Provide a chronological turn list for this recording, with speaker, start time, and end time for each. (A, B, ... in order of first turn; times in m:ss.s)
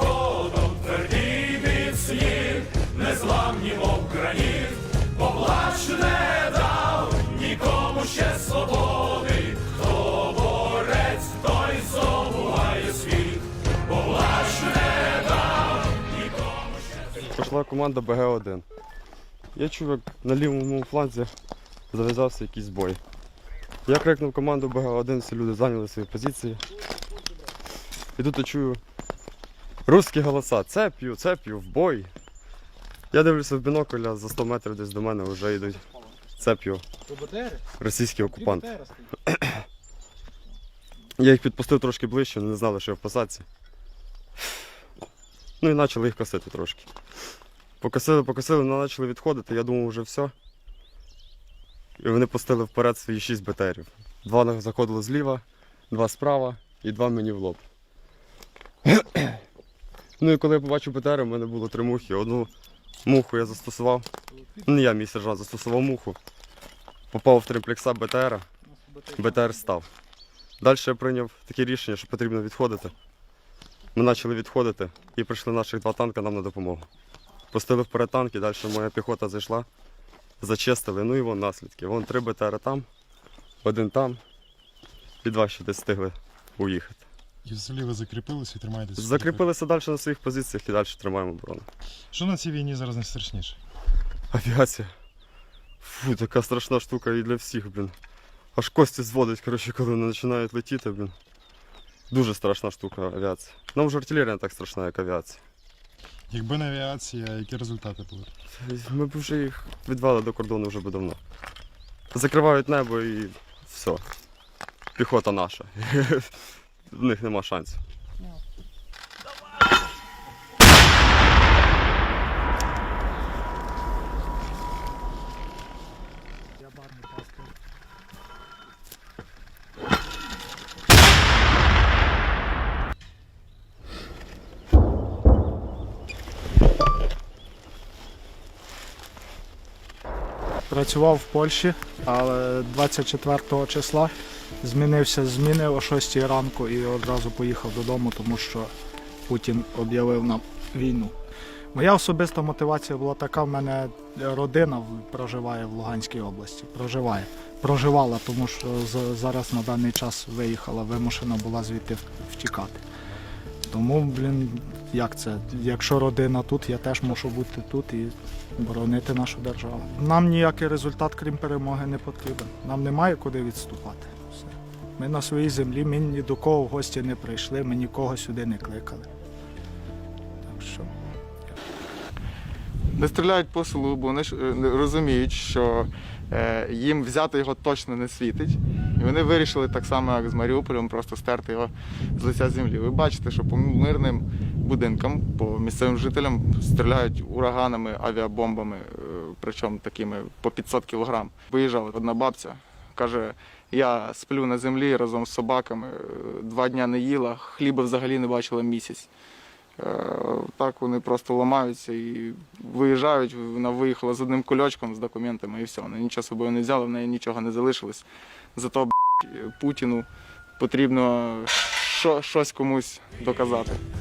0:01.4-0:01.7 A
0:02.9-0:03.9 B
0:07.2-0:08.7 B
0:11.0-0:11.6 B
0:12.3-0:12.8 B
0:17.1-0:18.6 A
0:19.5-0:21.3 A
0:21.9-0:23.0 A
0:23.8-0:26.6 A
0:28.2-0:28.8 A
0:29.8-0:32.1 A
0:33.1-0:36.8 A
0:37.1-0:37.6 B
0:37.8-0:39.6 A
0:38.4-0:39.1 B
0:41.2-0:43.4 A
0:45.6-0:46.9 A
0:47.8-0:50.3 A
0:52.0-0:57.6 A
0:58.8-0:59.4 A
1:00.2-1:02.5 A
1:03.0-1:04.1 A
1:04.6-1:06.2 A
1:07.1-1:08.5 A
1:08.7-1:09.2 B
1:09.2-1:09.9 A
1:10.6-1:12.9 A
1:13.9-1:16.8 A
1:17.5-1:19.7 A
1:20.4-1:22.9 A
1:23.6-1:24.2 A
1:25.2-1:27.0 A
1:27.4-1:29.4 C
1:29.0-1:31.7 A
1:32.1-1:33.6 C
1:34.3-1:34.9 A
1:35.8-1:37.9 A
1:38.5-1:41.1 A
1:42.1-1:45.4 A
1:46.3-1:48.3 C
1:48.5-1:51.2 A
1:52.1-1:54.0 A
1:55.0-1:56.3 A
1:56.9-1:57.8 A
2:06.6-2:07.5 D
2:20.7-2:28.7 D
2:29.3-2:31.1 D
2:31.7-2:42.8 D
2:43.7-2:59.1 D
3:00.4-3:00.9 D
3:03.0-3:29.1 E
3:29.8-3:38.0 E
3:38.6-3:40.1 E
3:40.6-3:43.8 E